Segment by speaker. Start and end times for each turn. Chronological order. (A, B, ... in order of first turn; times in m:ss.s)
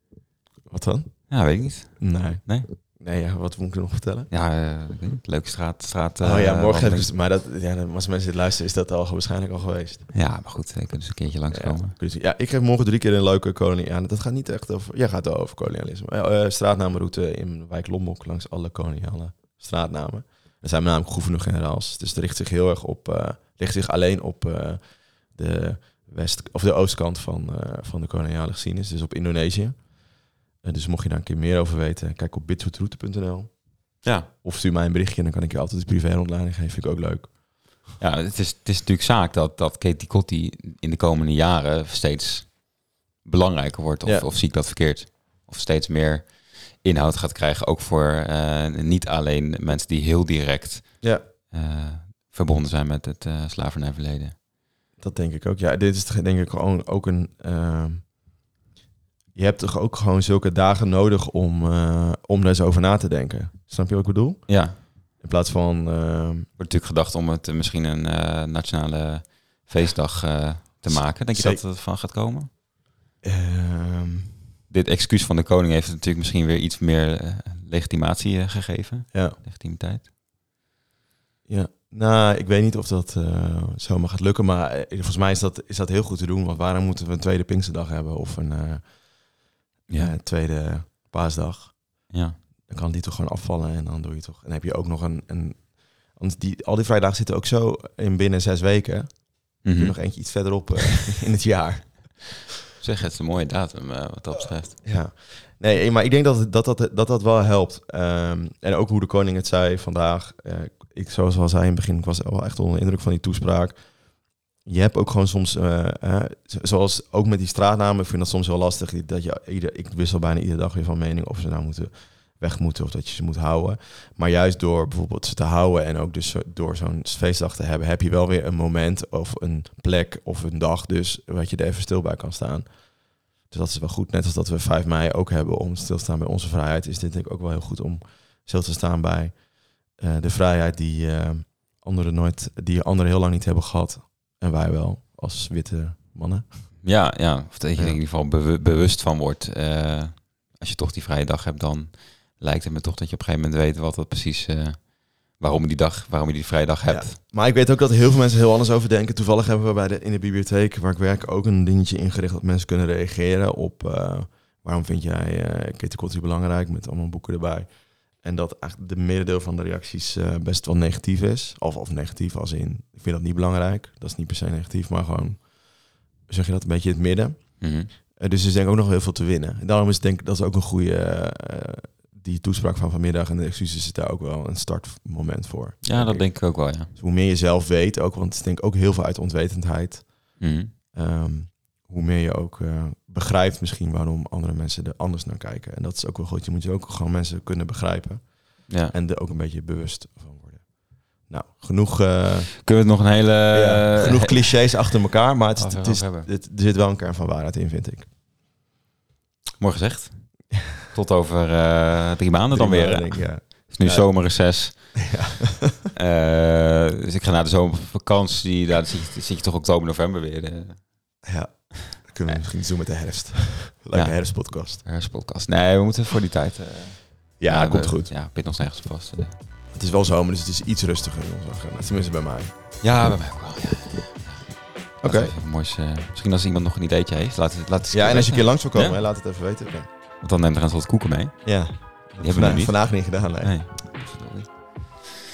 0:00.7-0:04.3 A
0:01.3-0:02.7 B
0:04.3-0:07.1 B
0:06.2-0:10.1 A
0:10.1-0:12.0 B
0:11.5-0:37.7 A
0:34.0-0:34.3 B
0:38.0-0:54.4 B
0:51.0-0:51.2 A
0:55.0-0:58.1 A
0:59.3-1:06.5 A
1:04.5-1:04.8 B
1:06.6-1:12.5 B
1:10.9-1:11.6 A
1:13.2-1:14.3 A
1:14.7-1:20.1 B
1:19.1-1:19.4 A
1:21.5-1:42.4 A
1:29.9-1:30.1 B
1:32.1-1:32.4 B
1:39.6-1:40.6 B
1:42.8-1:44.8 B
1:44.8-2:26.8 A
2:26.8-2:37.2 B
2:27.7-2:28.0 A
2:36.9-3:22.6 A
2:57.6-2:57.9 B
3:05.8-3:06.9 B
3:10.4-3:10.7 B
3:18.7-3:18.9 B
3:22.6-3:24.8 B
3:23.5-3:28.1 A
3:25.6-3:26.3 B
3:29.6-3:35.2 B
3:32.5-3:35.9 A
3:35.9-3:41.2 B
3:41.2-3:44.8 A
3:43.9-3:49.4 B
3:47.4-3:48.1 A
3:49.7-3:52.6 A
3:52.8-3:59.0 B
3:55.0-3:55.3 A
3:57.9-3:59.9 A
4:00.2-4:05.2 B
4:01.4-4:03.6 A